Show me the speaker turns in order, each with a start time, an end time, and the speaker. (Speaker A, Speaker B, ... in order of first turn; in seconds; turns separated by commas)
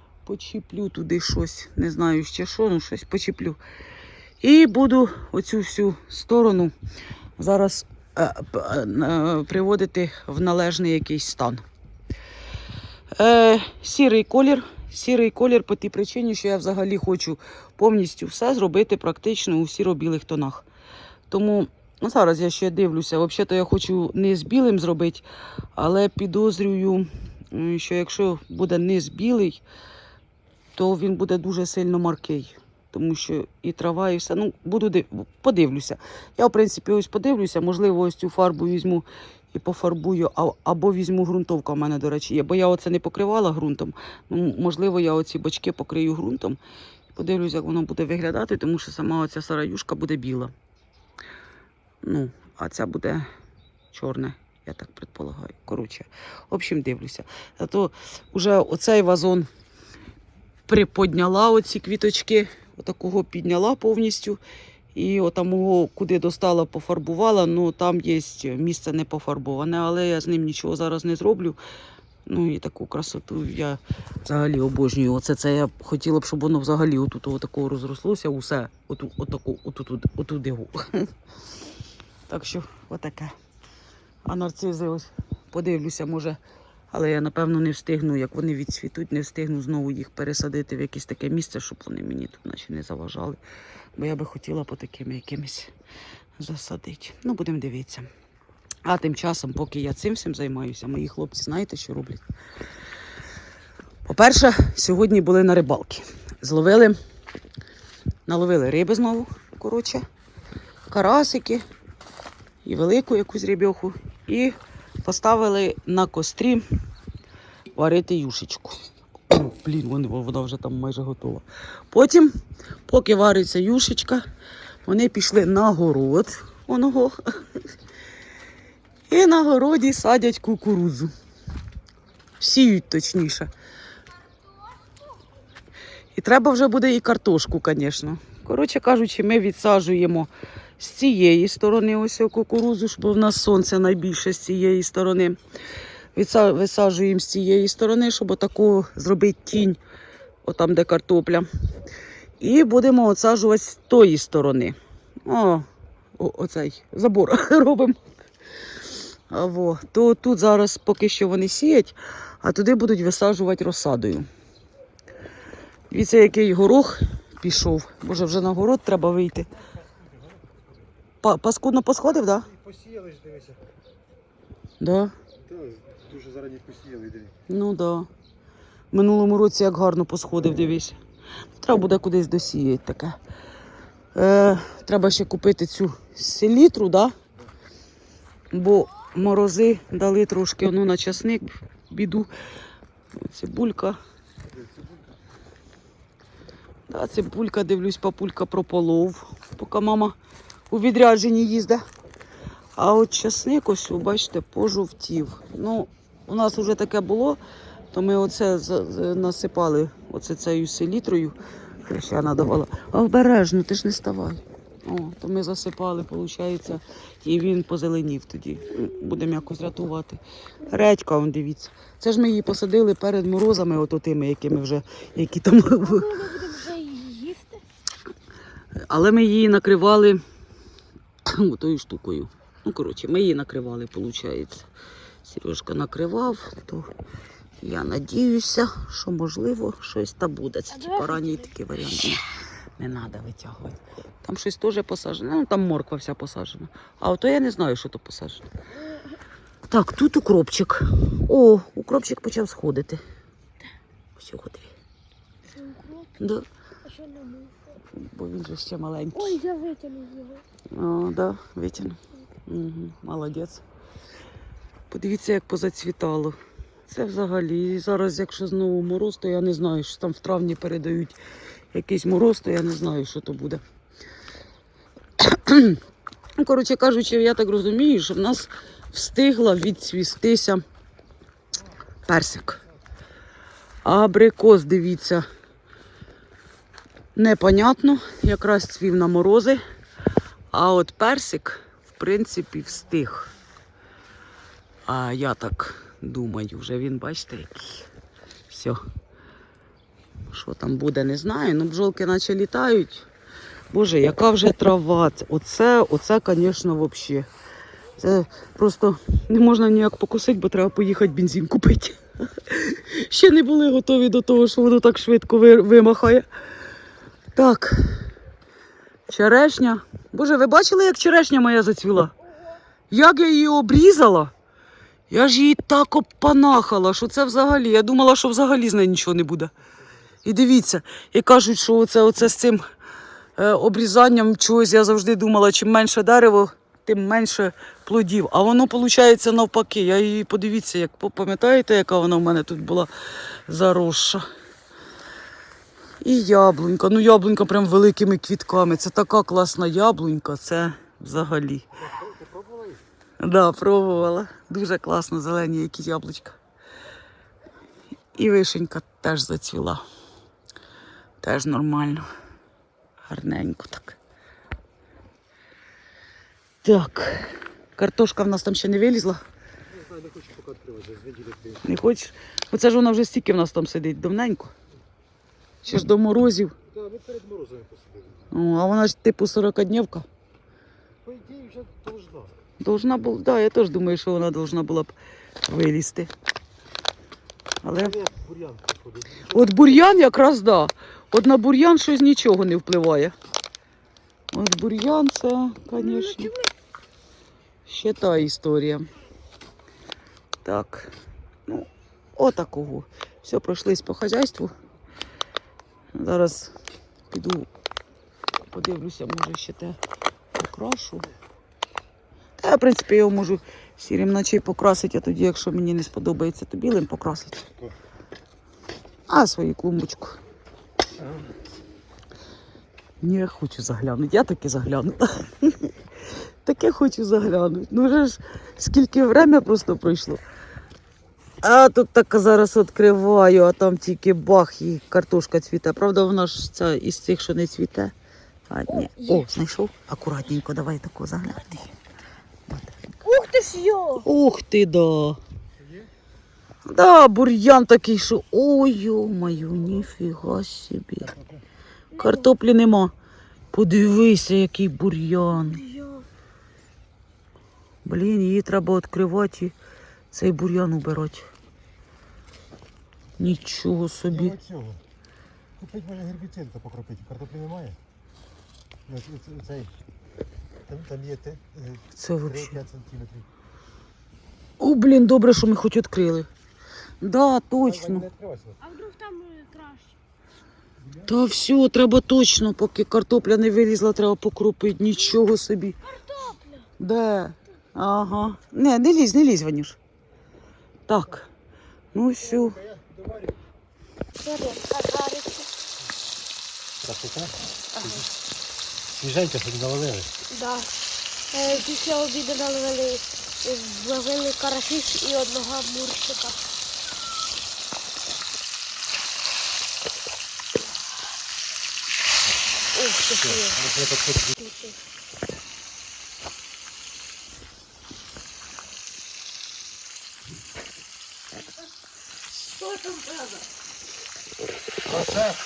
Speaker A: 0.2-3.6, Speaker A: 4.4-6.7, Speaker A: 7.4-11.6, Speaker A: 13.2-20.7, Speaker A: 21.3-25.2, Speaker A: 25.8-29.6, Speaker A: 30.8-46.6, Speaker A: 47.1-50.5, Speaker A: 52.0-53.3, Speaker A: 53.9-59.5, Speaker A: 60.7-64.4, Speaker A: 64.9-71.6, Speaker A: 72.3-81.1, Speaker A: 82.3-83.3, Speaker A: 84.2-86.4, Speaker A: 86.9-93.4, Speaker A: 94.0-95.7, Speaker A: 96.4-98.1, Speaker A: 98.8-102.2, Speaker A: 104.1-107.0, Speaker A: 108.3-110.0, Speaker A: 110.9-111.7, Speaker A: 112.6-116.6, Speaker A: 117.8-122.3, Speaker A: 122.9-124.2, Speaker A: 124.8-127.2, Speaker A: 129.1-131.1, Speaker A: 132.4-133.5, Speaker A: 136.1-145.4, Speaker A: 146.2-149.8, Speaker A: 150.4-151.5, Speaker A: 152.4-155.7, Speaker A: 156.2-158.0, Speaker A: 159.3-164.3, Speaker A: 165.9-169.5, Speaker B: 169.9-170.6, Speaker A: 171.2-172.5, Speaker B: 172.5-173.6, Speaker A: 174.8-175.1, Speaker B: 175.5-177.3, Speaker A: 177.5-178.1, Speaker A: 178.9-181.0, Speaker A: 181.6-183.2, Speaker A: 184.2-187.2, Speaker A: 188.5-192.3, Speaker A: 193.2-194.0, Speaker A: 196.9-200.2, Speaker A: 200.7-201.8, Speaker A: 202.8-207.4, Speaker A: 207.9-226.4, Speaker C: 225.8-227.6, Speaker A: 228.8-230.2, Speaker A: 231.3-234.7, Speaker A: 235.2-236.9, Speaker A: 237.6-248.5, Speaker C: 240.7-241.4, Speaker A: 249.7-253.0, Speaker A: 254.2-254.7, Speaker C: 255.5-256.1, Speaker A: 256.2-256.5, Speaker C: 256.8-257.6, Speaker A: 257.9-259.4, Speaker C: 259.1-260.4, Speaker A: 260.7-263.6, Speaker A: 264.9-271.2, Speaker A: 271.7-273.6, Speaker A: 275.2-275.8, Speaker A: 276.4-280.6, Speaker A: 282.1-282.6, Speaker A: 283.8-285.3, Speaker A: 287.1-289.6, Speaker A: 290.5-293.3, Speaker A: 294.9-297.9, Speaker A: 298.5-298.8, Speaker A: 300.3-303.1, Speaker A: 303.7-307.3, Speaker A: 308.0-316.3, Speaker A: 317.3-318.1, Speaker A: 319.1-322.1, Speaker A: 322.9-324.3, Speaker A: 325.1-329.5, Speaker A: 330.2-332.6, Speaker A: 333.4-342.9, Speaker A: 343.5-344.2, Speaker A: 346.0-351.7, Speaker B: 351.9-352.8, Speaker A: 353.2-356.4, Speaker A: 358.1-359.8, Speaker A: 361.2-362.1, Speaker A: 363.1-364.0, Speaker A: 366.6-369.2, Speaker B: 369.7-371.6, Speaker A: 371.6-374.5, Speaker A: 375.6-376.6, Speaker B: 376.7-378.3, Speaker A: 378.3-380.1, Speaker B: 381.1-382.3, Speaker A: 382.6-384.9, Speaker A: 385.5-386.1, Speaker A: 387.6-388.0, Speaker B: 387.8-389.6, Speaker A: 389.3-393.1, Speaker A: 394.3-396.4, Speaker C: 395.8-396.5, Speaker A: 397.7-398.9, Speaker A: 400.4-400.9, Speaker A: 401.5-404.5, Speaker A: 405.9-406.6, Speaker A: 407.1-407.5, Speaker A: 408.5-409.8, Speaker A: 410.4-411.1, Speaker A: 412.4-417.4, Speaker A: 419.1-420.2, Speaker A: 423.0-425.7, Speaker A: 426.4-430.2, Speaker A: 431.4-437.9, Speaker A: 438.5-441.7, Speaker C: 438.7-439.3, Speaker A: 442.5-443.0, Speaker C: 443.0-444.1, Speaker A: 444.0-445.2, Speaker A: 446.7-451.1, Speaker C: 451.9-452.3, Speaker A: 452.0-452.9, Speaker A: 453.5-455.7, Speaker C: 455.4-456.1, Speaker A: 457.8-459.6, Speaker A: 460.1-461.2, Speaker A: 463.2-464.4, Speaker B: 464.1-464.8, Speaker B: 465.6-467.8, Speaker B: 468.9-469.7, Speaker B: 470.7-473.3, Speaker A: 471.9-472.6, Speaker A: 474.6-476.3, Speaker A: 477.0-478.1, Speaker B: 477.6-478.6, Speaker C: 478.6-480.0, Speaker A: 481.0-485.8, Speaker C: 485.9-486.7, Speaker A: 486.8-489.8, Speaker A: 490.9-491.3, Speaker A: 491.9-492.7, Speaker C: 494.2-495.5, Speaker B: 496.8-498.1, Speaker C: 497.8-498.1, Speaker B: 499.0-500.1, Speaker C: 500.3-500.7, Speaker C: 501.3-506.4, Speaker C: 512.7-513.6, Speaker B: 513.2-514.4, Speaker C: 514.4-514.8, Speaker B: 524.9-525.4